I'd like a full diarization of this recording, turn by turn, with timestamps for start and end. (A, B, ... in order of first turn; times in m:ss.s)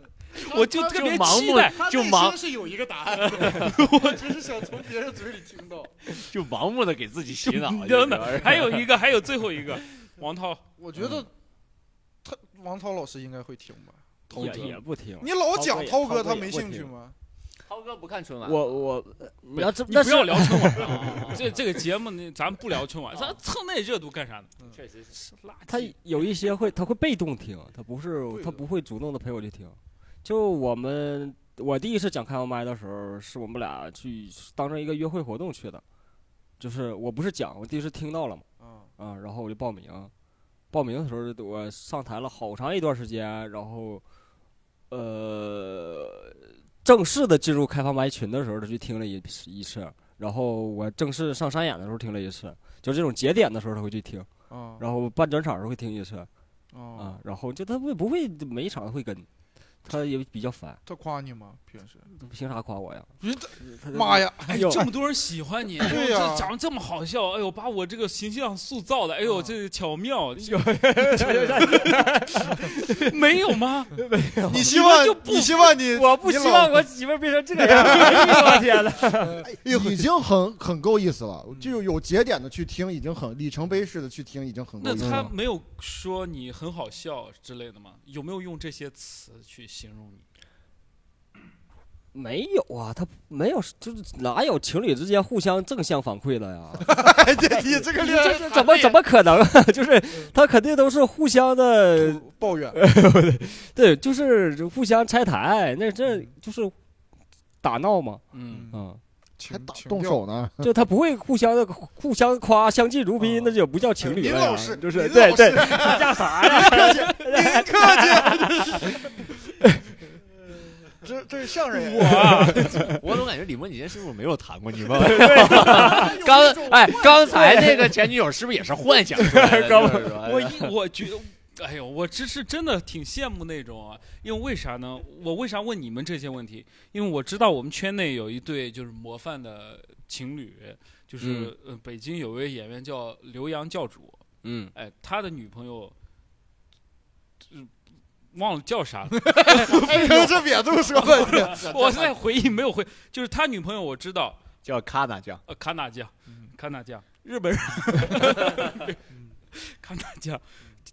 0:00.4-0:01.9 A
0:00.5-0:01.0 B
0:00.5-0:02.6 C
0:01.7-0:06.0 B
0:03.2-0:03.7 C
0:03.4-0:04.3 A
0:06.2-0:08.9 C
0:07.4-0:10.6 A
0:10.8-0:11.3 B
0:11.0-0:11.2 D
0:12.2-0:17.2 B
0:14.3-0:16.9 D
0:14.4-0:14.7 A
0:17.7-0:18.8 C
0:18.4-0:21.4 D
0:19.6-0:24.5 A
0:20.8-0:21.4 C
0:24.7-0:25.2 C
0:25.1-0:26.0 A
0:25.7-0:35.8 D
0:28.3-0:28.6 B
0:36.6-0:38.4 D
0:38.6-0:38.9 B
0:39.0-0:40.1 D
0:40.7-0:44.0 D
0:44.9-0:54.3 D
0:54.5-0:54.8 B
0:54.8-0:56.3 D
0:56.7-0:57.2 B
0:57.0-0:59.3 D
0:59.8-1:00.8 D
1:00.8-1:02.1 B
1:02.1-1:04.9 D
1:03.2-1:04.8 B
1:04.5-1:14.0 A
1:05.8-1:06.5 B
1:09.3-1:09.5 B
1:10.4-1:13.1 D
1:14.0-1:14.8 D
1:14.5-1:16.9 B
1:14.6-1:15.8 A
1:15.8-1:19.5 D
1:17.6-1:19.8 B
1:19.5-1:25.3 E
1:24.8-1:30.2 A
1:32.1-1:46.7 D
1:36.9-1:39.0 B
1:42.0-1:42.8 B
1:47.6-1:49.0 D
1:48.3-1:48.7 A
1:48.5-1:48.8 B
1:49.4-1:50.2 B
1:49.5-1:50.7 E
1:50.6-1:58.9 D
1:53.2-1:59.1 B
2:01.0-2:02.8 B
2:01.8-2:02.9 A
2:02.0-2:03.0 D
2:02.9-2:10.7 C
2:04.9-2:06.2 D
2:05.4-2:07.8 B
2:07.3-2:07.9 D
2:09.2-2:10.2 D
2:10.1-2:26.0 A
2:21.2-2:21.5 D
2:24.4-2:24.7 D
2:28.3-2:30.4 A
2:29.2-2:31.7 B
2:31.0-2:34.4 A
2:31.1-2:32.2 C
2:34.6-2:35.4 C
2:35.5-2:39.0 A
2:39.5-2:40.4 A